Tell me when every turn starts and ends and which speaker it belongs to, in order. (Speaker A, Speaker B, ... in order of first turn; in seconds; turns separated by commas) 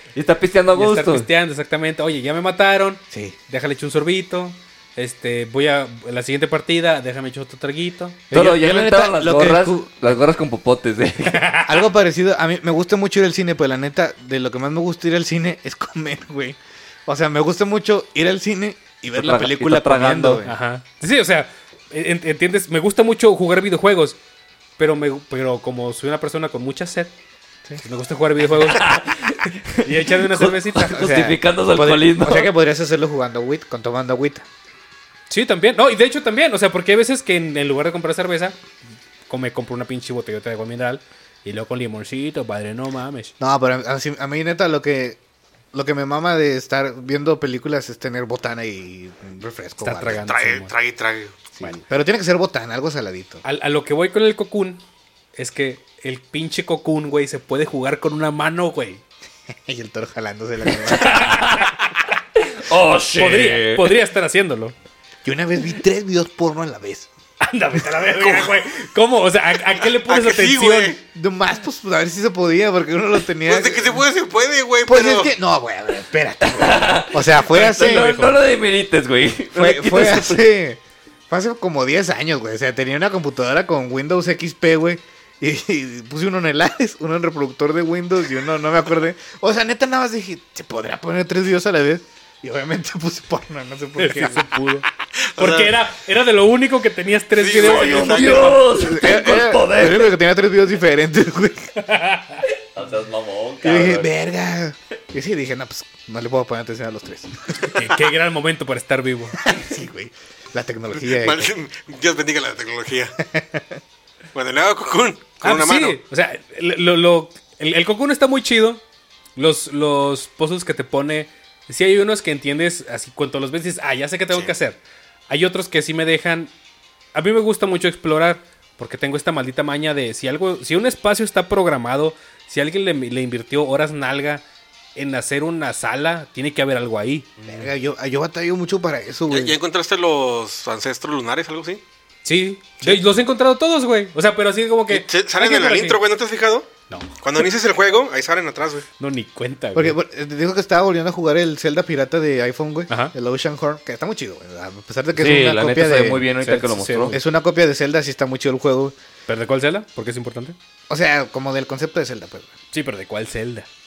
Speaker A: 0.1-1.3, Speaker B: 0.7-8.3, Speaker C: 3.1-3.4, Speaker C: 8.3-9.9, Speaker A: 8.3-11.5, Speaker B: 11.3-11.8, Speaker C: 11.6-20.6, Speaker A: 19.1-20.4, Speaker B: 20.4-24.2, Speaker B: 24.8-27.1, Speaker B: 27.8-29.0, Speaker A: 28.5-32.5, Speaker B: 29.8-31.1, Speaker C: 30.9-34.5, Speaker B: 35.3-38.6, Speaker B: 39.3-43.3, Speaker C: 43.4-45.2, Speaker C: 45.7-50.3, Speaker B: 49.8-50.7, Speaker D: 50.2-51.4, Speaker C: 51.5-53.4, Speaker B: 53.4-54.8, Speaker B: 55.4-59.0, Speaker C: 59.5-61.7, Speaker A: 60.7-61.8, Speaker A: 62.5-63.9, Speaker B: 63.1-64.7, Speaker C: 65.2-67.1, Speaker B: 67.4-71.0, Speaker D: 68.1-68.6, Speaker D: 69.8-71.0, Speaker C: 71.1-74.0, Speaker D: 73.4-75.3, Speaker C: 74.8-78.3, Speaker A: 76.4-80.4, Speaker B: 77.5-78.3, Speaker C: 79.5-94.5, Speaker B: 94.0-98.6, Speaker D: 95.4-95.7, Speaker D: 97.3-98.6, Speaker A: 97.5-100.1, Speaker C: 98.7-101.7, Speaker B: 101.8-102.4, Speaker A: 102.7-104.1, Speaker C: 103.6-107.9, Speaker B: 107.6-109.4, Speaker C: 109.4-111.5, Speaker D: 111.0-113.2, Speaker C: 113.2-113.8, Speaker D: 114.3-116.0, Speaker B: 115.4-118.8, Speaker B: 119.4-126.5, Speaker B: 127.1-134.4, Speaker B: 134.9-137.3, Speaker A: 137.4-137.7, Speaker C: 137.4-139.6, Speaker D: 139.3-141.8, Speaker B: 142.2-146.0, Speaker D: 144.9-146.7, Speaker B: 146.9-147.2, Speaker D: 147.2-148.9, Speaker B: 149.0-149.9, Speaker C: 149.7-156.2, Speaker B: 152.9-153.1, Speaker A: 155.2-157.2, Speaker B: 156.4-157.2, Speaker C: 157.1-158.9, Speaker B: 159.3-160.6, Speaker C: 160.9-162.5, Speaker B: 162.7-163.7